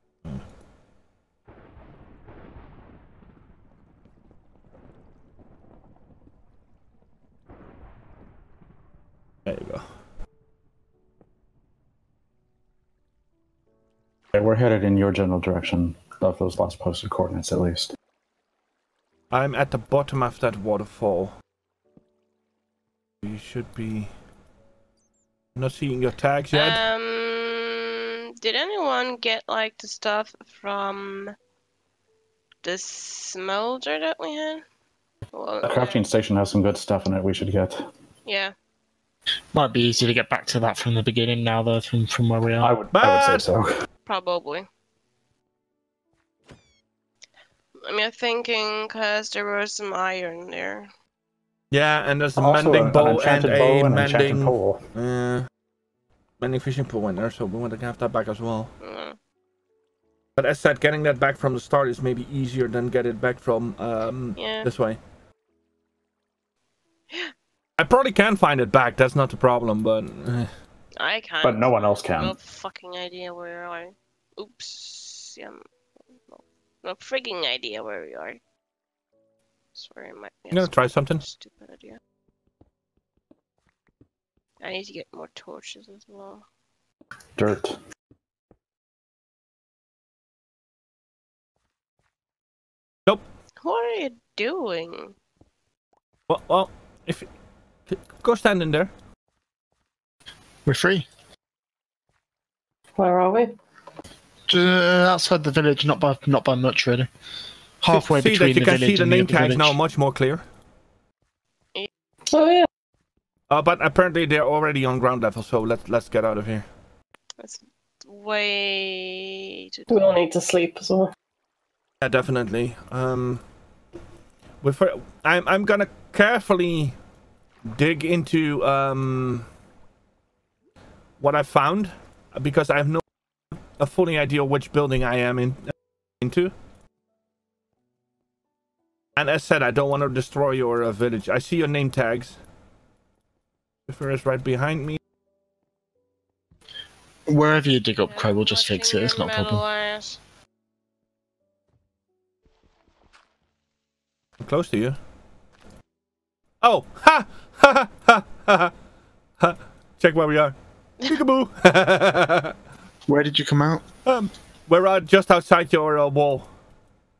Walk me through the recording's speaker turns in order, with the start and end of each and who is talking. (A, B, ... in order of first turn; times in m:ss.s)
0:09.4-0:09.8 A
0:14.3-0:17.9 B
0:19.3-0:21.3 A
0:23.2-0:24.1 A
0:25.6-0:26.8 A
0:26.5-0:31.3 C
0:32.6-0:34.6 C
0:35.3-0:36.0 C
0:35.6-0:37.9 B
0:38.2-0:38.5 C
0:39.5-0:42.7 D
0:42.6-0:43.8 B
0:42.9-0:43.5 A
0:44.1-0:44.7 C
0:47.8-0:50.9 C
0:51.7-0:55.5 A
0:52.4-0:54.8 B
0:56.4-0:58.7 A
0:58.8-0:59.2 C
1:00.4-1:05.0 A
1:04.4-1:04.7 C
1:07.8-1:10.5 A
1:11.0-1:15.6 C
1:11.4-1:12.4 B
1:16.3-1:18.4 C
1:19.7-1:22.0 C
1:20.5-1:21.2 A
1:24.6-1:26.4 C
1:27.4-1:27.8 B
1:33.6-1:35.2 C
1:36.3-1:37.3 A
1:37.9-1:38.9 A
1:40.6-1:41.1 D
1:43.0-1:43.5 E
1:44.5-1:47.1 D
1:47.8-1:49.8 D
1:47.9-1:50.4 A
1:52.3-1:52.7 E
1:53.5-1:56.6 A
1:57.4-2:00.2 C
1:59.9-2:01.1 E
2:02.0-2:03.4 A
2:04.6-2:06.9 A
2:07.7-2:09.5 A
2:11.2-2:13.0 A
2:13.8-2:16.5 A
2:19.2-2:22.4 A
2:23.9-2:25.0 A
2:27.3-2:29.6 D
2:28.1-2:30.2 C
2:34.4-2:35.0 A
2:36.6-2:38.7 A
2:39.4-2:42.5 A
2:43.1-2:43.8 D
2:44.0-2:46.5 A